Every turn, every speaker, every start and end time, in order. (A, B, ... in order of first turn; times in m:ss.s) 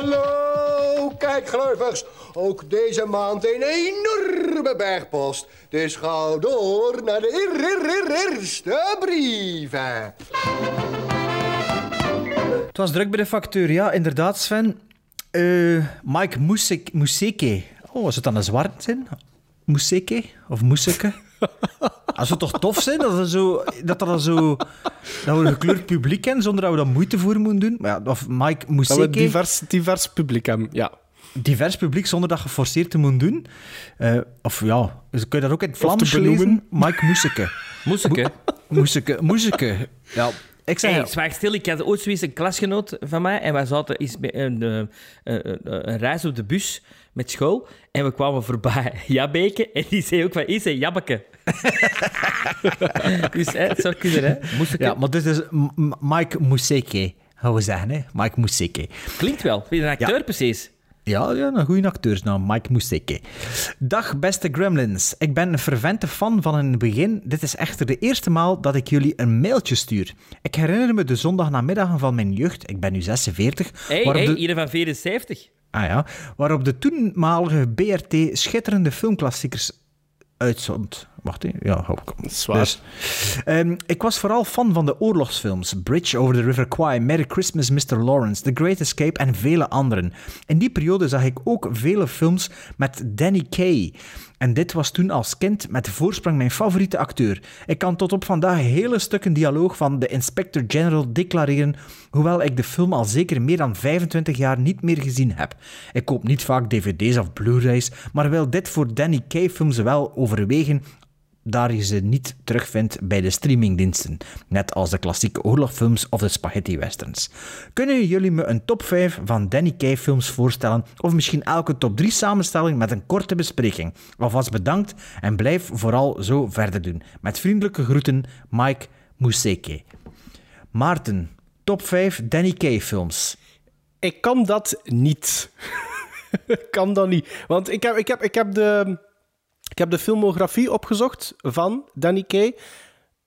0:01.2-0:03.9 A
0:04.8-0:06.4 A
0:12.7-0:14.8 B
0:15.3-0:19.1 B
0:19.7-0:21.2 B
0:22.1-0:24.7 B
0:25.2-0:29.4 B
0:28.9-0:30.9 C
0:31.4-0:37.5 B
0:35.8-0:37.2 C
0:37.8-0:38.3 D
0:38.0-0:41.1 B
0:40.8-0:51.2 D
0:51.6-0:52.7 B
0:52.9-0:54.9 D
0:54.5-0:59.0 B
0:59.2-1:00.7 D
1:01.0-1:14.4 B
1:13.9-1:15.5 D
1:15.7-1:19.7 B
1:20.4-1:50.8 B
1:22.3-1:22.8 C
1:51.4-2:09.8 B
2:10.7-2:13.4 B
2:14.0-2:15.5 C
2:16.5-2:19.0 C
2:19.8-2:22.5 C